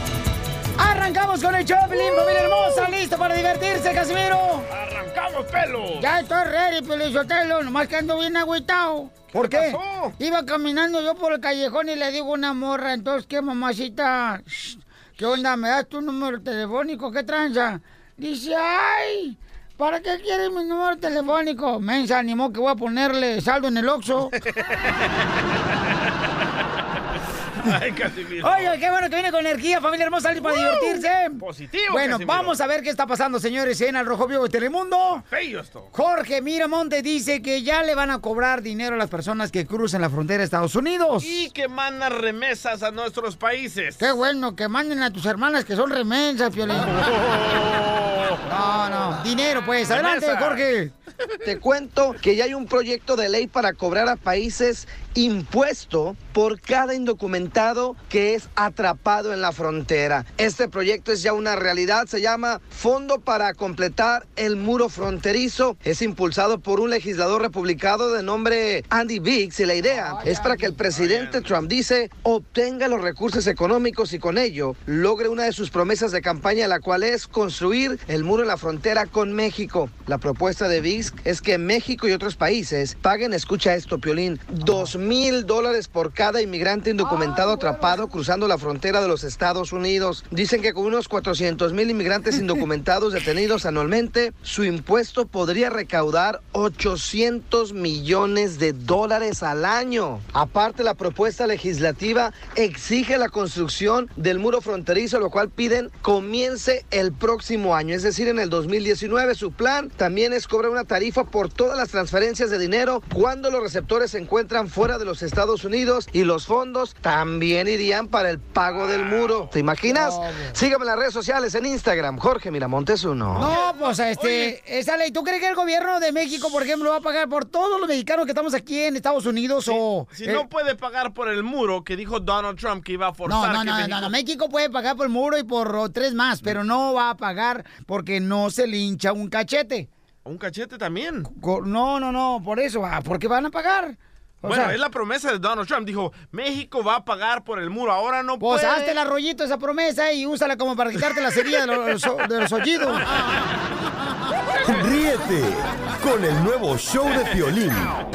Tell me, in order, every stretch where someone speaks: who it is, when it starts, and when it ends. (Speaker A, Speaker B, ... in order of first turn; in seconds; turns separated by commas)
Speaker A: 0.8-4.7, Speaker B: 4.7-6.1, Speaker A: 6.0-24.4, Speaker B: 9.3-10.2, Speaker B: 27.6-28.8, Speaker A: 28.4-35.2, Speaker B: 30.6-32.6, Speaker B: 35.3-35.9, Speaker A: 35.9-41.4, Speaker B: 41.2-44.1, Speaker A: 44.0-47.0, Speaker B: 46.8-48.5, Speaker A: 48.5-50.9, Speaker B: 49.9-50.7, Speaker C: 51.4-123.5, Speaker A: 69.9-70.9, Speaker B: 70.9-71.6, Speaker A: 87.0-88.1, Speaker B: 118.7-119.5, Speaker A: 119.9-120.6, Speaker A: 123.3-130.5, Speaker B: 123.4-124.5, Speaker B: 129.7-134.1, Speaker A: 133.3-139.9, Speaker B: 140.2-141.3, Speaker A: 141.3-144.8, Speaker B: 144.4-149.0, Speaker A: 148.4-153.1, Speaker D: 154.6-158.0